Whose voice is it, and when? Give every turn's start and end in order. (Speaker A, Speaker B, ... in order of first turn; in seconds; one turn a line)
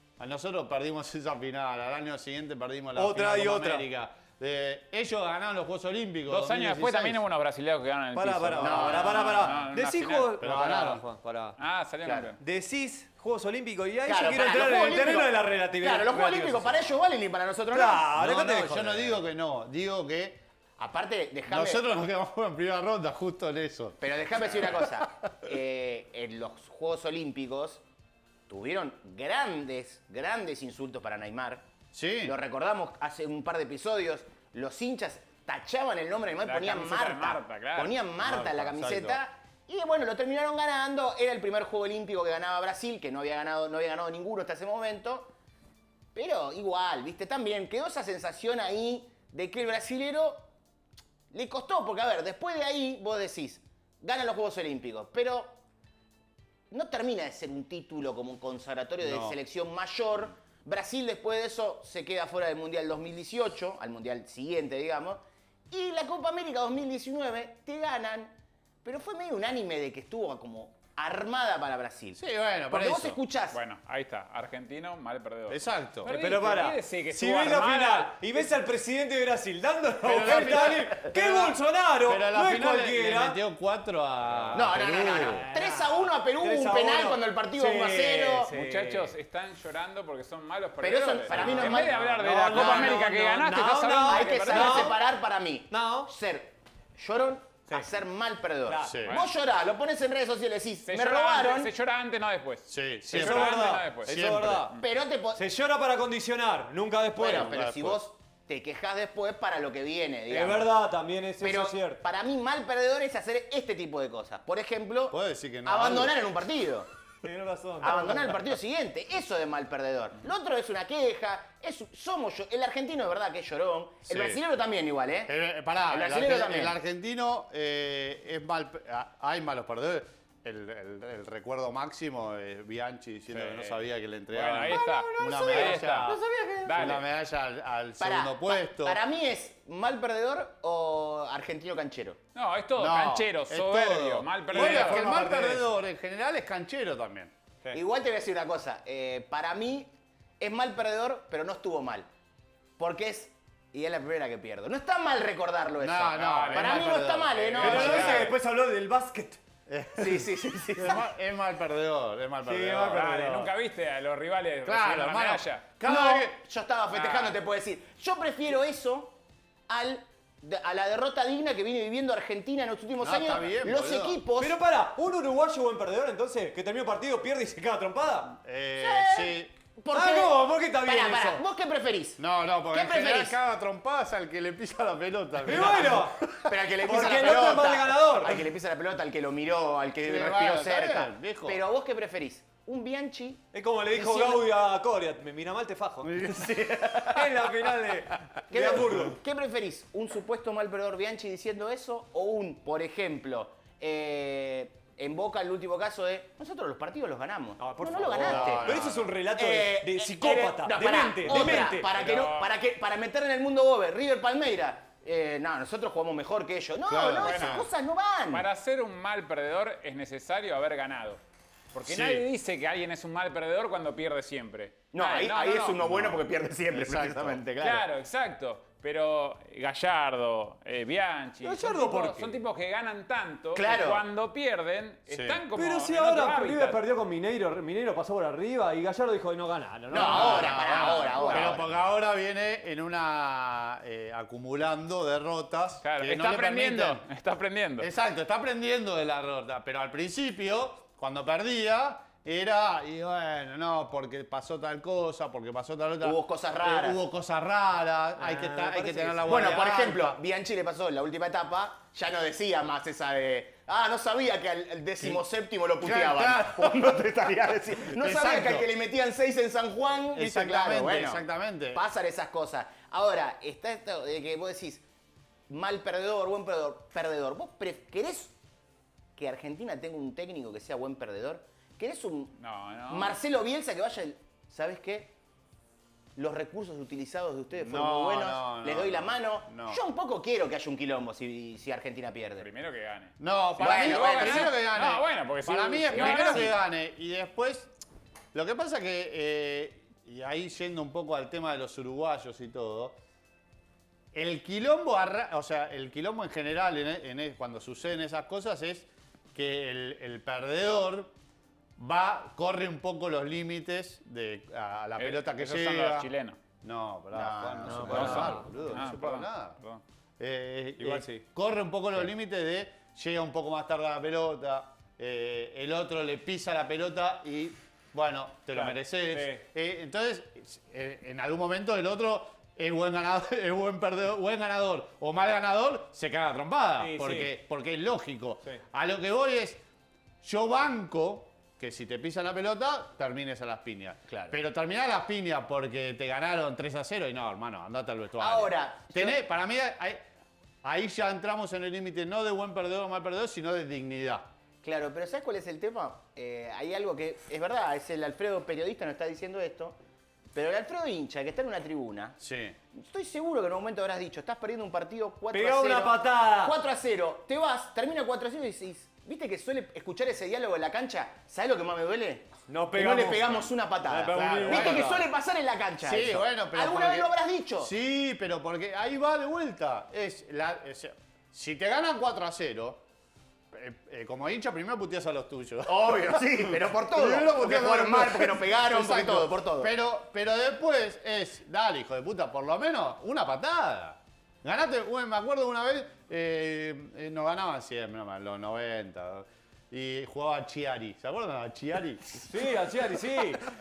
Speaker A: 0.2-7.2
Speaker B: 2.9-3.9
Speaker C: 6.3-10.4
Speaker B: 8.1-11.6
Speaker D: 8.6-9.4
Speaker A: 10.4-11.0
Speaker C: 11.6-12.4
Speaker D: 12.0-12.3
Speaker B: 12.4-16.9
Speaker D: 14.1-18.1
Speaker B: 17.7-19.2
Speaker A: 18.1-20.4
Speaker D: 20.8-21.8
Speaker A: 21.5-25.1
Speaker D: 24.0-27.8
Speaker D: 28.5-31.6
Speaker A: 31.9-32.3
Speaker D: 32.2-45.3
Speaker C: 36.4-38.0
Speaker A: 38.2-39.2
Speaker D: 46.1-50.5
Speaker D: 51.3-55.6
Speaker D: 56.7-73.6
Speaker A: 59.0-59.4
Speaker A: 72.2-73.2
Speaker C: 73.5-78.5
Speaker A: 75.5-76.1
Speaker B: 76.0-83.4
Speaker A: 80.0-85.5
Speaker D: 84.5-88.5
Speaker B: 84.8-89.1
Speaker C: 88.5-95.0
Speaker D: 90.8-93.2
Speaker A: 91.3-91.9
Speaker B: 91.4-95.0
Speaker D: 94.0-101.7
Speaker B: 95.7-96.1
Speaker B: 98.7-99.0
Speaker A: 98.8-99.2
Speaker C: 99.1-99.3
Speaker C: 100.8-104.1
Speaker A: 102.7-104.7
Speaker B: 103.1-104.8
Speaker D: 104.8-105.4
Speaker B: 105.3-107.5
Speaker D: 107.2-110.7
Speaker A: 107.2-108.0
Speaker B: 110.3-112.0
Speaker D: 111.4-116.9
Speaker A: 115.1-116.2
Speaker B: 117.2-118.3
Speaker D: 117.8-125.3
Speaker A: 124.0-124.4
Speaker A: 125.3-136.2
Speaker D: 125.9-126.8
Speaker C: 133.3-137.0
Speaker B: 134.6-136.9
Speaker A: 136.7-139.0
Speaker D: 138.0-142.2
Speaker C: 142.3-145.1
Speaker A: 142.8-147.8
Speaker B: 144.5-145.7
Speaker D: 147.7-152.1
Speaker D: 152.8-158.2
Speaker A: 155.8-158.3
Speaker C: 156.1-156.9
Speaker C: 157.5-158.3
Speaker B: 157.6-159.4
Speaker A: 159.7-163.2
Speaker D: 160.0-161.0
Speaker B: 162.4-163.5
Speaker C: 162.9-165.7
Speaker A: 164.6-166.3
Speaker D: 165.8-169.2
Speaker C: 166.9-167.4
Speaker D: 169.7-174.6
Speaker A: 173.0-174.2
Speaker B: 174.4-178.3
Speaker A: 178.3-179.5
Speaker D: 178.8-183.4
Speaker B: 179.9-181.4
Speaker A: 182.2-186.5
Speaker B: 185.4-186.2
Speaker D: 186.4-193.4
Speaker B: 186.8-188.4
Speaker A: 190.0-191.6
Speaker B: 193.5-199.2
Speaker D: 193.9-194.4
Speaker A: 196.0-197.5
Speaker D: 198.5-218.4
Speaker B: 207.6-211.9
Speaker A: 208.2-209.1
Speaker C: 211.3-212.5
Speaker A: 216.9-217.7
Speaker C: 217.2-217.7
Speaker C: 218.3-221.2
Speaker C: 221.7-225.8
Speaker A: 221.8-222.2
Speaker D: 224.9-227.8
Speaker A: 225.8-227.4
Speaker C: 227.6-236.8
Speaker B: 231.4-232.3
Speaker D: 233.5-234.0
Speaker A: 235.1-235.4
Speaker B: 235.5-241.5
Speaker D: 239.9-241.7
Speaker A: 239.9-247.0
Speaker C: 240.0-241.6
Speaker C: 245.8-247.9
Speaker A: 247.8-260.2
Speaker D: 256.0-257.0
Speaker B: 258.2-259.6
Speaker D: 259.2-274.8
Speaker A: 265.8-267.1
Speaker A: 267.8-268.7
Speaker A: 270.1-271.8
Speaker D: 275.5-278.3
Speaker D: 279.2-282.4
Speaker C: 282.4-283.2
Speaker D: 282.9-285.1
Speaker D: 286.2-292.5
Speaker A: 287.5-289.8
Speaker C: 292.4-296.5
Speaker A: 293.2-297.7
Speaker D: 293.6-294.5
Speaker D: 295.9-296.5
Speaker A: 298.3-303.0
Speaker A: 304.1-311.1
Speaker A: 311.8-316.1
Speaker C: 315.0-316.4
Speaker A: 316.6-319.6
Speaker D: 317.1-318.3
Speaker B: 317.6-318.8
Speaker C: 317.8-319.8
Speaker A: 320.2-339.6
Speaker B: 320.8-321.2
Speaker B: 328.5-329.4
Speaker B: 336.8-337.3
Speaker A: 340.2-350.0
Speaker D: 344.1-344.4
Speaker D: 348.2-349.2
Speaker A: 350.6-354.3
Speaker D: 354.6-359.8
Speaker D: 360.3-362.2
Speaker A: 362.2-362.6
Speaker D: 362.7-377.7
Speaker B: 365.3-366.6
Speaker B: 372.5-375.0
Speaker A: 374.1-375.1
Speaker A: 375.8-382.8
Speaker A: 383.5-402.4
Speaker D: 385.6-389.7
Speaker B: 402.3-403.4